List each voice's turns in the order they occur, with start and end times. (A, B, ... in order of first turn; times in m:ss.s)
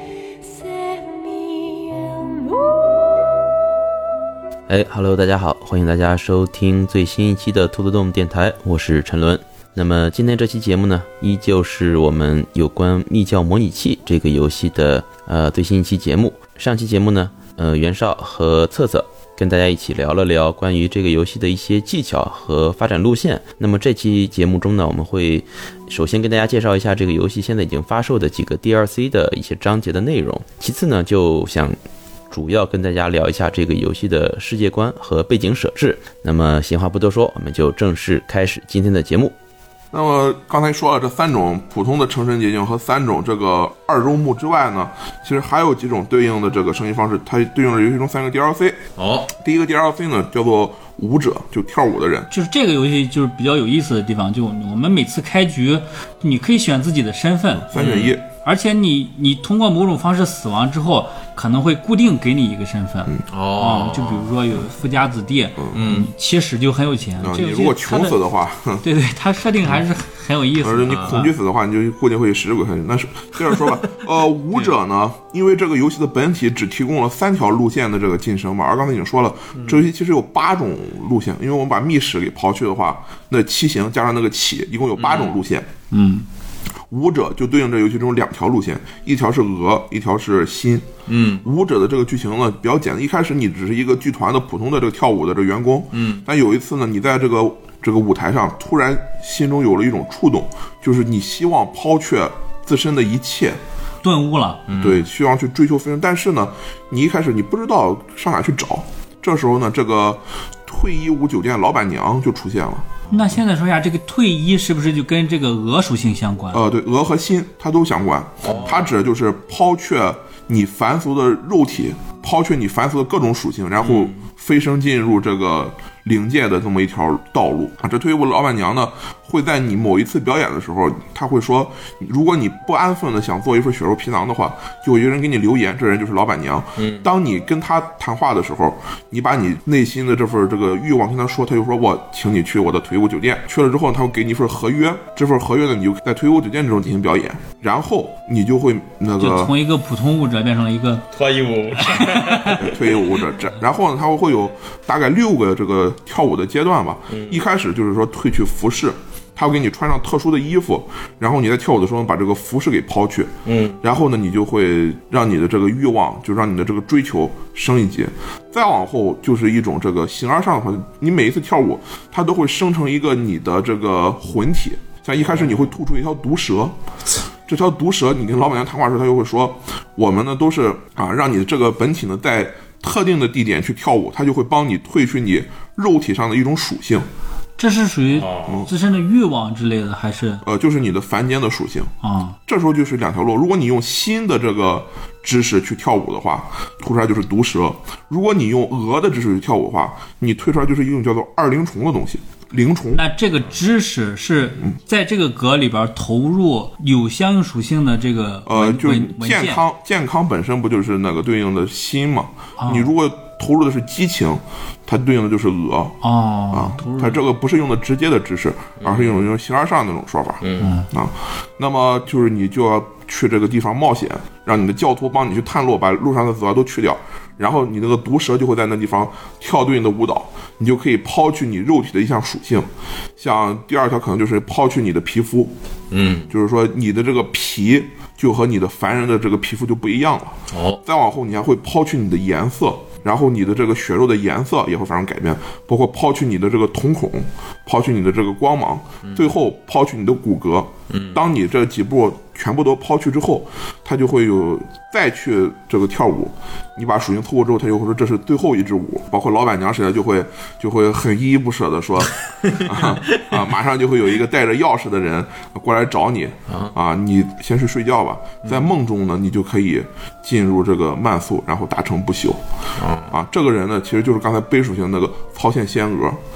0:00.4-0:03.4 A
0:04.7-0:31.8 B
0:32.3-0:39.3 B
0:39.9-0:48.8 C
0:49.0-0:49.3 D
0:49.3-0:52.3 C
0:52.3-0:57.7 E
0:57.7-0:58.2 C
0:57.7-0:58.2 D
0:58.4-1:08.2 E
1:03.3-1:04.3 D
1:05.7-1:06.1 D
1:07.2-1:08.8 C
1:08.8-1:11.3 E
1:10.6-1:25.7 C
1:10.9-1:11.2 D
1:25.0-1:25.4 D
1:25.9-1:26.2 E
1:26.9-1:30.9 C
1:31.1-1:31.4 D
1:31.4-1:43.6 C
1:35.9-1:36.2 D
1:44.0-1:44.6 E
1:44.7-1:45.0 D
1:44.8-1:52.9 C
1:53.1-1:56.6 E
1:56.5-2:29.5 C
1:58.4-1:58.9 D
2:03.8-2:04.1 D
2:16.8-2:17.1 D
2:29.2-2:31.0 E
2:31.1-2:32.9 D
2:31.8-2:32.6 E
2:32.5-2:56.7 C
2:37.1-2:37.4 D
2:43.4-2:43.8 D
2:57.5-3:07.0 C
3:07.6-3:10.4 E
3:08.2-3:08.6 D
3:10.4-3:11.9 C
3:12.0-3:12.3 E
3:12.5-3:23.0 C
3:22.9-3:29.6 E
3:28.4-3:36.0 C
3:32.6-3:32.9 E
3:36.0-3:37.2 E
3:36.5-3:55.5 C
3:38.8-3:39.2 D
3:40.4-3:40.7 D
3:40.6-3:40.9 E
3:55.9-3:56.3 D
3:56.3-4:32.4 C
4:00.5-4:00.8 D
4:09.0-4:09.3 D
4:10.9-4:11.2 D
4:22.5-4:23.3 D
4:26.5-4:26.7 D
4:28.4-4:28.7 D
4:32.8-4:33.1 D
4:33.1-4:36.2 C